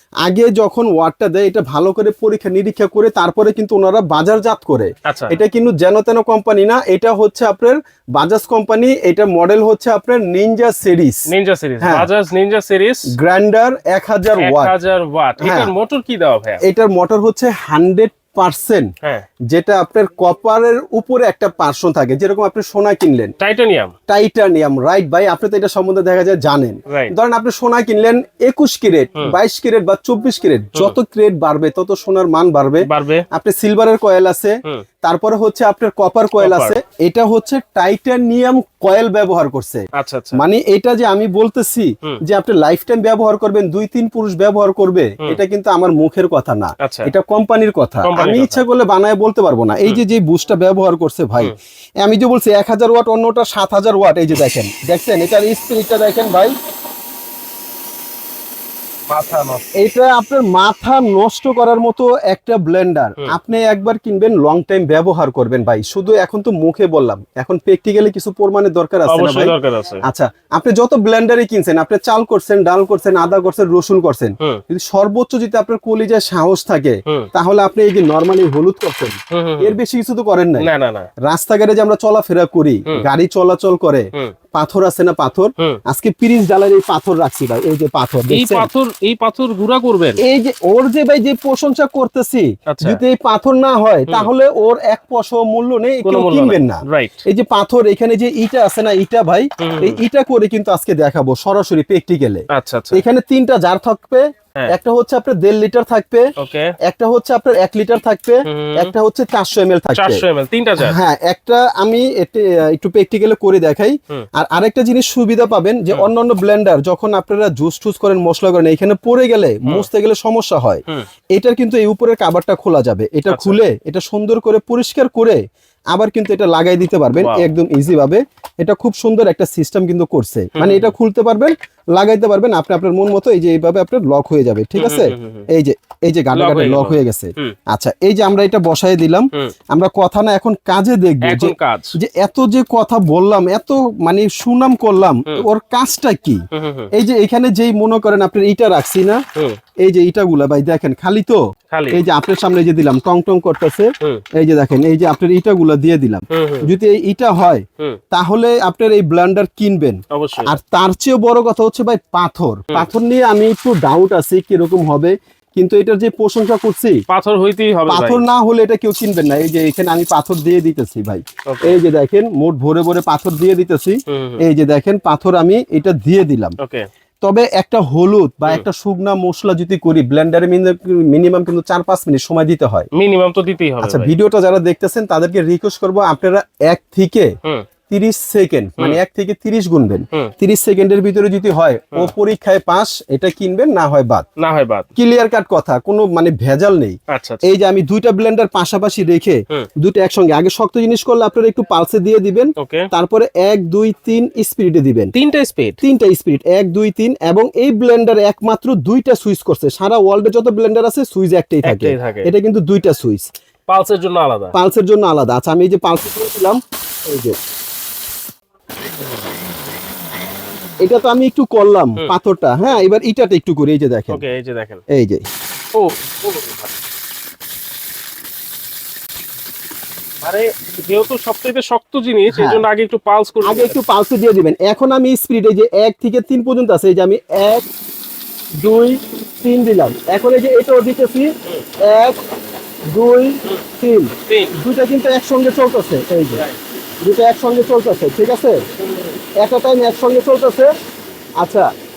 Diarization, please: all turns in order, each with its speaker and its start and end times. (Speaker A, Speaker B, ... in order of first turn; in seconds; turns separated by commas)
Speaker A: 0.2-11.2, Speaker B: 5.0-5.3, Speaker B: 11.3-13.1, Speaker A: 11.8-12.1, Speaker A: 13.1-14.7, Speaker B: 14.4-16.6, Speaker A: 15.4-15.7, Speaker A: 16.6-18.9, Speaker A: 19.5-23.3, Speaker B: 23.4-23.9, Speaker A: 24.1-39.8, Speaker B: 32.8-33.2, Speaker B: 36.4-36.8, Speaker B: 40.0-40.4, Speaker A: 40.3-56.5, Speaker B: 46.8-47.1, Speaker B: 48.0-48.6, Speaker B: 59.1-59.6, Speaker A: 59.8-69.5, Speaker B: 69.1-70.0, Speaker A: 70.0-80.7, Speaker B: 79.3-79.8, Speaker B: 80.6-81.1, Speaker A: 81.3-88.7, Speaker B: 88.3-90.2, Speaker A: 90.2-106.2, Speaker B: 92.7-93.0, Speaker B: 96.0-97.2, Speaker B: 99.6-100.0, Speaker B: 102.5-103.0, Speaker B: 106.4-106.7, Speaker A: 106.9-110.2, Speaker B: 108.5-108.9, Speaker B: 109.9-111.0, Speaker A: 110.8-120.8, Speaker A: 121.3-125.4, Speaker B: 123.3-123.6, Speaker A: 125.9-146.4, Speaker B: 127.2-127.5, Speaker B: 130.6-130.9, Speaker B: 134.8-135.5, Speaker B: 136.3-137.6, Speaker B: 141.2-141.9, Speaker B: 146.5-146.9, Speaker A: 146.9-149.2, Speaker A: 149.8-151.4, Speaker B: 151.7-152.0, Speaker A: 151.9-166.9, Speaker B: 156.3-156.7, Speaker B: 160.1-160.5, Speaker B: 167.1-168.2, Speaker A: 167.9-176.6, Speaker B: 171.5-171.8, Speaker B: 174.1-174.4, Speaker B: 176.6-176.9, Speaker A: 177.2-182.9, Speaker B: 182.9-184.1, Speaker A: 183.8-187.3, Speaker A: 187.9-194.2, Speaker B: 194.4-194.8, Speaker A: 194.9-205.1, Speaker B: 197.1-197.4, Speaker B: 202.6-202.8, Speaker B: 205.1-205.8, Speaker A: 205.8-213.3, Speaker B: 211.6-212.3, Speaker B: 213.7-214.5, Speaker A: 214.5-217.3, Speaker A: 220.8-224.2, Speaker B: 224.1-224.8, Speaker A: 224.9-225.2, Speaker B: 225.8-226.7, Speaker B: 230.2-233.8, Speaker A: 232.3-232.6, Speaker A: 233.4-237.6, Speaker A: 238.6-241.3, Speaker A: 241.8-242.2, Speaker A: 242.9-246.4, Speaker B: 244.2-244.5, Speaker A: 247.0-248.6, Speaker B: 248.8-249.1, Speaker A: 249.4-250.7, Speaker A: 251.4-251.7